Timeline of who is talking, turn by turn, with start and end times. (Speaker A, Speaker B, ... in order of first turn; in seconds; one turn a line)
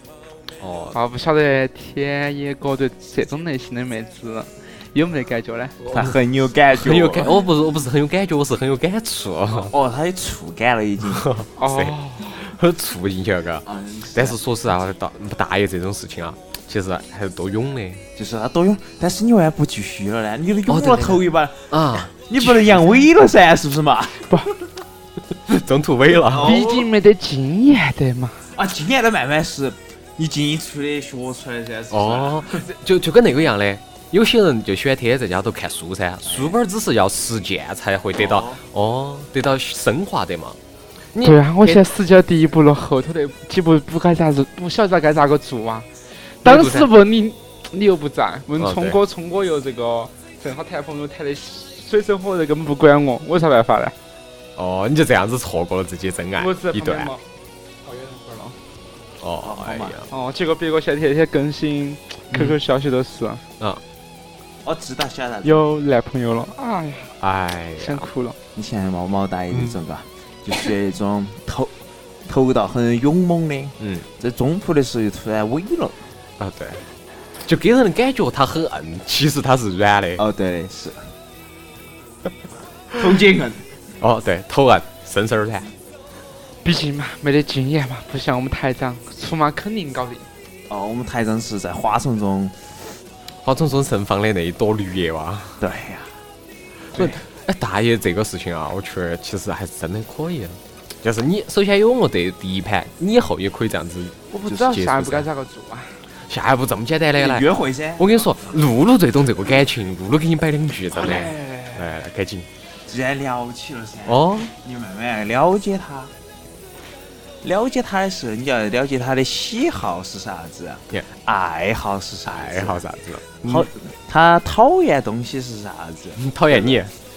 Speaker A: 0.6-1.0
Speaker B: 0.9-6.0
Speaker C: 5.9-7.3
Speaker A: 6.7-9.7
Speaker C: 9.5-11.3
Speaker A: 11.2-18.1
Speaker B: 11.6-12.4
Speaker C: 13.7-14.4
Speaker C: 18.2-24.3
Speaker A: 20.7-22.9
Speaker A: 25.5-26.6
Speaker C: 26.2-26.9
Speaker B: 26.4-28.5
Speaker C: 28.5-32.6
Speaker A: 31.9-40.6
Speaker C: 36.2-36.6
Speaker C: 38.1-38.6
Speaker A: 41.1-41.8
Speaker B: 41.2-45.9
Speaker B: 46.4-54.0
Speaker A: 46.4-46.9
Speaker A: 48.6-49.0
Speaker A: 54.6-57.1
Speaker B: 56.4-57.2
Speaker B: 57.8-58.6
Speaker A: 59.2-60.1
Speaker C: 59.4-60.0
Speaker B: 60.1-63.4
Speaker A: 62.3-62.6
Speaker C: 64.6-65.6
Speaker B: 65.4-67.1
Speaker A: 67.2-68.0
Speaker B: 67.8-68.4
Speaker C: 68.5-71.7
Speaker C: 72.3-76.0
Speaker A: 73.8-74.1
Speaker A: 76.4-76.8
Speaker A: 77.4-80.2
Speaker C: 80.2-81.1
Speaker C: 82.9-83.6
Speaker A: 84.0-85.7
Speaker B: 86.6-90.3
Speaker C: 90.7-92.6
Speaker A: 93.4-95.6
Speaker C: 95.6-96.1
Speaker A: 96.9-105.3
Speaker B: 104.3-106.0
Speaker A: 106.3-112.5
Speaker C: 107.2-108.2
Speaker C: 111.0-111.8
Speaker C: 112.9-116.1
Speaker A: 114.1-114.5
Speaker C: 117.4-122.8
Speaker A: 122.3-123.7
Speaker C: 123.4-126.8
Speaker A: 126.2-126.9